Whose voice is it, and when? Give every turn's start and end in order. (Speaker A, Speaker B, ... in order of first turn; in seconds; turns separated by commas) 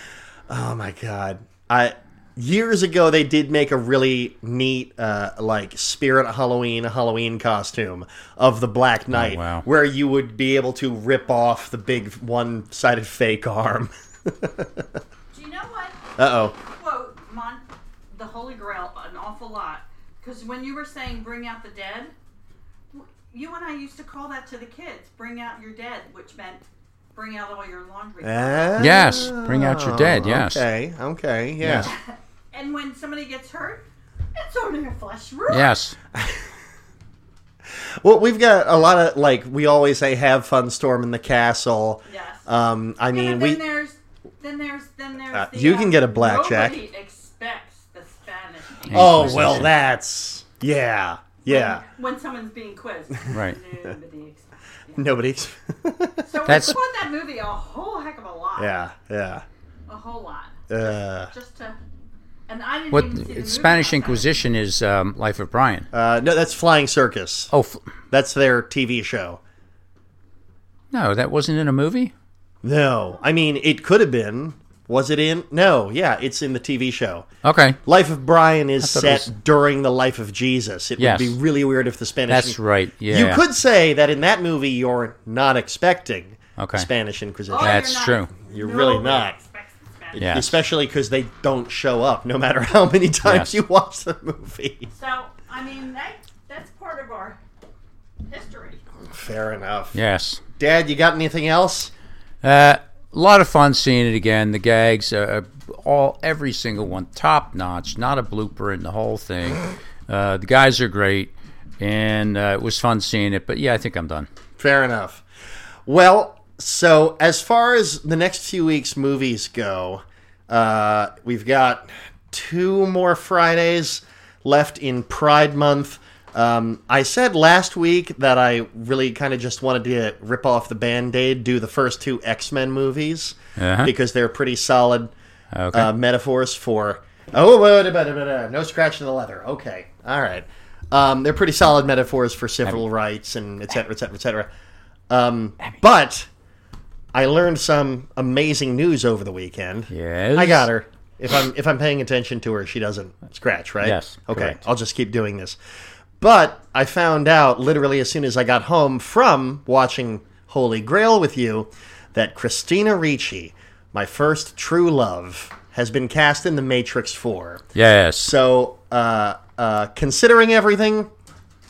Speaker A: 0.5-15.0, Speaker B: 9.1-9.6, Speaker C: 15.3-16.0, Speaker A: 16.2-16.5, Speaker C: 16.6-22.1, Speaker C: 22.9-26.6, Speaker C: 27.1-29.3, Speaker A: 28.2-31.9, Speaker B: 28.8-30.6, Speaker B: 31.6-31.9, Speaker C: 31.8-33.8, Speaker C: 34.3-35.7, Speaker B: 35.5-36.0, Speaker A: 36.1-36.4, Speaker A: 37.7-43.6, Speaker C: 42.1-42.5, Speaker C: 43.1-49.7, Speaker A: 45.3-46.8, Speaker B: 48.9-49.7, Speaker A: 48.9-51.8, Speaker C: 51.5-55.0, Speaker B: 53.3-53.6, Speaker A: 55.0-56.6, Speaker C: 56.2-58.8, Speaker B: 56.4-56.7, Speaker A: 58.6-59.4, Speaker C: 59.9-60.6, Speaker A: 60.7-61.3, Speaker C: 61.3-61.8, Speaker C: 62.5-64.3, Speaker B: 62.9-65.9, Speaker A: 65.9-67.5, Speaker B: 67.5-67.8, Speaker A: 68.1-69.4, Speaker B: 70.9-72.1, Speaker A: 72.6-77.2, Speaker B: 77.4-77.8, Speaker A: 77.8-88.0, Speaker B: 78.8-79.3, Speaker B: 81.0-81.4, Speaker B: 82.3-83.4, Speaker B: 86.6-86.9, Speaker C: 87.5-90.3, Speaker B: 87.6-88.3, Speaker A: 88.5-89.3, Speaker A: 90.1-94.9, Speaker B: 90.2-90.5, Speaker B: 93.2-93.6, Speaker C: 94.9-97.4, Speaker C: 98.3-98.8, Speaker A: 99.1-100.0, Speaker B: 99.9-100.4, Speaker A: 100.6-101.9, Speaker B: 102.4-114.3, Speaker A: 114.6-115.2, Speaker A: 115.8-135.1, Speaker B: 133.6-133.9, Speaker B: 135.5-135.9, Speaker A: 135.7-144.5, Speaker A: 145.1-146.3, Speaker A: 147.1-155.6, Speaker B: 149.9-150.7, Speaker B: 153.8-154.6, Speaker A: 156.2-167.6, Speaker B: 167.7-168.3, Speaker A: 168.2-171.1